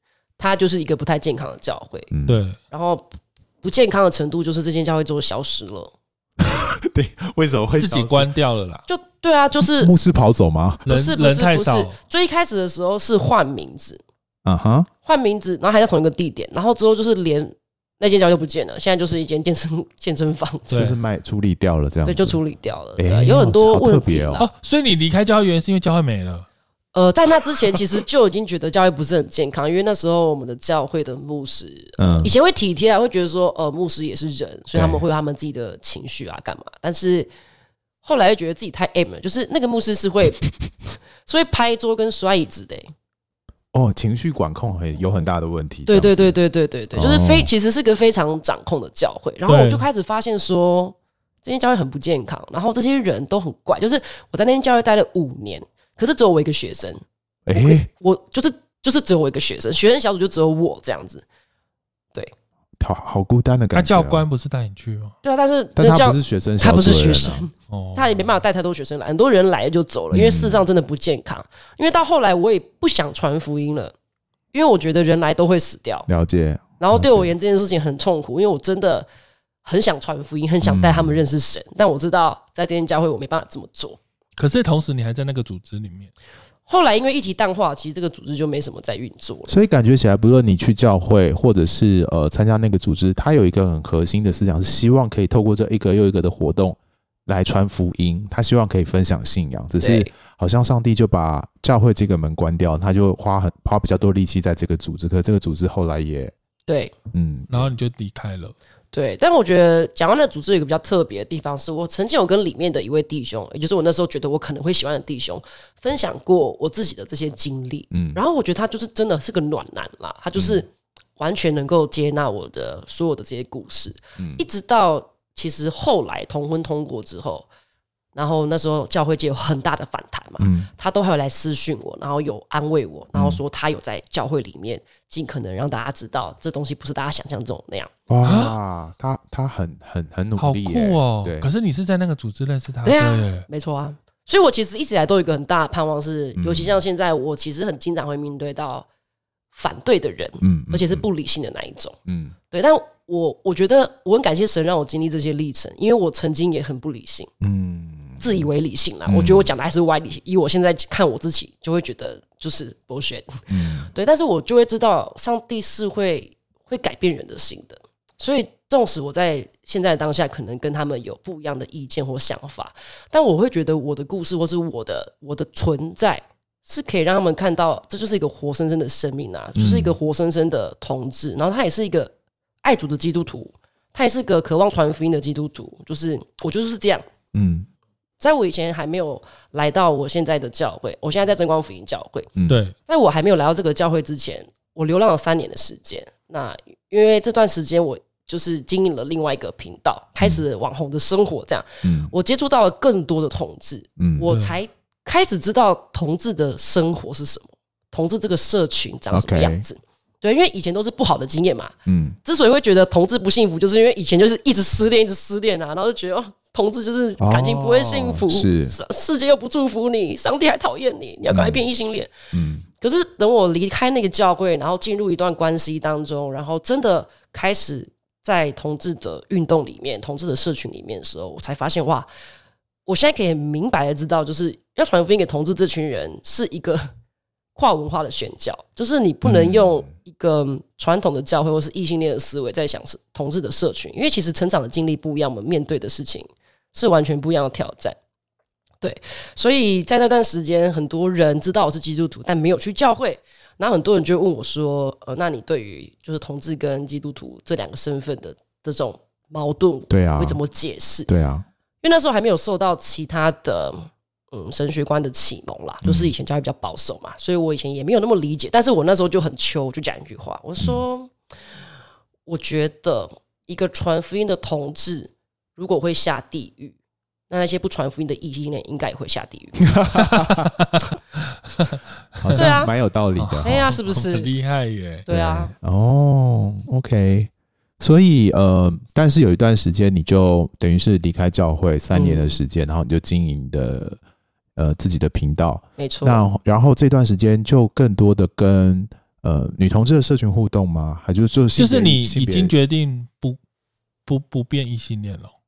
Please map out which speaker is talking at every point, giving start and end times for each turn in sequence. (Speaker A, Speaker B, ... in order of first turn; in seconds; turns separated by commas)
Speaker A: 0.4-2.1, Speaker B: 2.1-2.4, Speaker C: 2.3-2.6, Speaker A: 2.7-3.0, Speaker A: 3.6-5.9, Speaker B: 6.4-8.3, Speaker C: 7.8-8.8, Speaker A: 8.9-9.9, Speaker B: 9.6-10.8, Speaker C: 10.8-12.0, Speaker A: 10.9-14.0, Speaker B: 14.4-14.9, Speaker A: 15.0-20.9, Speaker C: 20.7-21.0, Speaker B: 20.7-22.4, Speaker A: 22.0-24.5, Speaker B: 23.0-24.4, Speaker C: 24.4-26.5, Speaker A: 26.9-37.3, Speaker B: 32.0-32.3, Speaker B: 34.7-35.0, Speaker A: 38.0-40.4, Speaker A: 41.2-42.9, Speaker B: 43.7-46.3, Speaker A: 45.9-57.0, Speaker B: 46.9-47.5, Speaker C: 49.5-49.9, Speaker B: 57.5-57.9, Speaker A: 57.5-61.2, Speaker B: 62.8-64.2, Speaker C: 63.7-65.1, Speaker A: 65.2-73.9, Speaker B: 65.8-67.5, Speaker C: 67.7-68.3, Speaker B: 70.1-70.7, Speaker A: 74.5-76.1, Speaker B: 76.1-77.3, Speaker A: 76.8-79.1, Speaker A: 79.6-84.0, Speaker B: 80.6-81.2, Speaker C: 84.4-86.1, Speaker A: 86.7-89.5, Speaker B: 89.5-106.3, Speaker A: 99.8-100.1, Speaker A: 106.7-106.9, Speaker B: 107.1-107.7, Speaker C: 107.5-108.5, Speaker A: 108.9-127.5, Speaker B: 117.9-118.2, Speaker B: 120.3-120.6, Speaker B: 124.2-124.4, Speaker A: 128.1-137.9, Speaker B: 130.4-130.7, Speaker B: 133.1-133.4, Speaker B: 138.1-141.5, Speaker C: 138.2-138.6, Speaker C: 140.4-143.5, Speaker A: 142.8-148.8, Speaker B: 146.4-146.8, Speaker A: 149.5-152.0, Speaker B: 150.4-151.1, Speaker B: 152.1-152.3, Speaker A: 152.5-157.3, Speaker B: 157.4-158.5, Speaker A: 158.2-182.1, Speaker B: 159.1-159.5, Speaker B: 163.5-163.9, Speaker B: 179.6-179.9, Speaker A: 182.6-187.1, Speaker B: 187.3-187.7, Speaker A: 188.2-192.3, Speaker B: 192.3-192.6, Speaker C: 192.5-192.7, Speaker A: 192.8-222.1, Speaker B: 201.8-202.1, Speaker B: 204.0-204.3, Speaker C: 204.3-204.6, Speaker B: 209.1-209.7, Speaker B: 211.8-212.2, Speaker B: 217.2-218.8, Speaker B: 221.3-221.6, Speaker B: 222.3-222.6, Speaker A: 222.8-232.1, Speaker A: 232.8-236.9, Speaker A: 237.6-248.0, Speaker B: 239.2-239.9, Speaker A: 248.8-261.1, Speaker B: 259.9-260.4, Speaker B: 261.1-261.4, Speaker A: 261.8-271.1, Speaker B: 265.8-266.1, Speaker A: 272.2-276.8, Speaker A: 277.3-279.6, Speaker B: 279.6-280.5, Speaker C: 280.1-280.7, Speaker C: 281.6-282.6, Speaker B: 282.2-283.7, Speaker A: 282.3-282.7, Speaker C: 283.1-285.1, Speaker A: 283.4-284.3, Speaker A: 285.1-285.5, Speaker B: 285.1-294.0, Speaker A: 291.9-292.4, Speaker B: 294.6-302.5, Speaker A: 295.8-296.2, Speaker C: 301.6-303.4, Speaker C: 304.1-305.3